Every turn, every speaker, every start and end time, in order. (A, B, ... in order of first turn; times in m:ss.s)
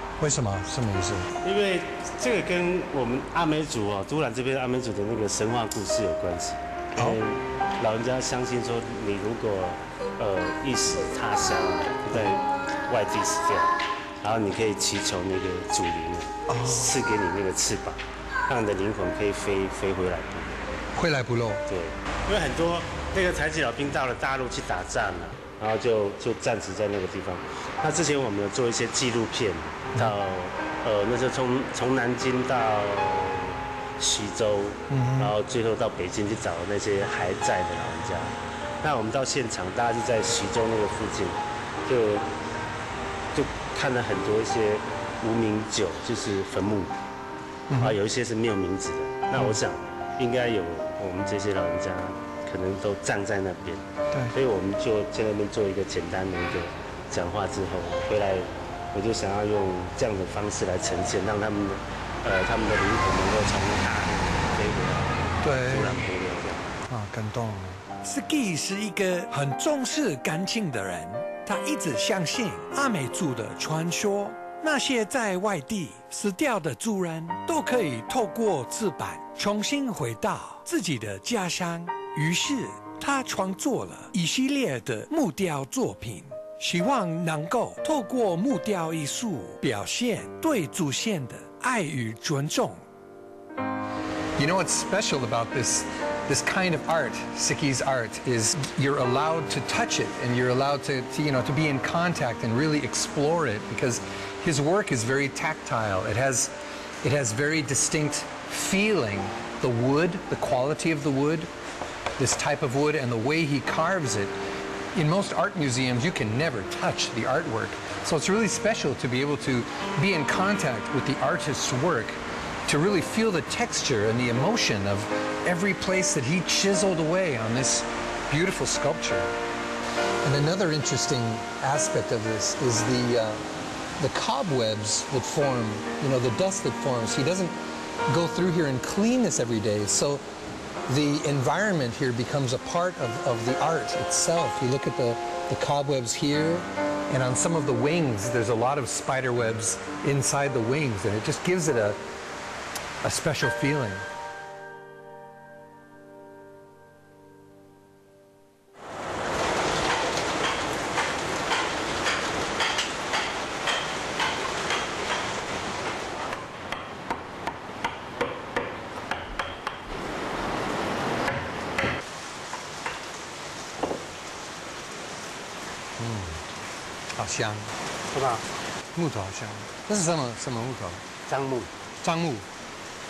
0:00.2-0:01.3 A
0:01.4-0:20.7 B
0:16.5-0:16.9 A
0:20.9-0:21.6 A
0:21.7-0:42.3 B
0:34.9-0:35.3 A
0:43.3-0:46.9 B
0:47.7-0:48.0 A
0:47.8-1:06.7 B
1:05.4-1:06.1 A
1:06.9-1:07.8 A
1:07.9-1:32.8 C
1:34.4-1:51.5 A
1:52.2-1:54.3 A
1:54.9-2:09.3 A
2:10.2-2:13.4 A
2:14.0-2:20.2 A
2:20.8-2:32.0 A
2:33.0-2:34.0 A
2:56.0-2:56.4 A
2:57.2-2:57.7 A
2:58.1-2:58.4 B
2:58.9-3:01.0 A
3:01.3-3:01.7 B
3:02.0-3:02.4 A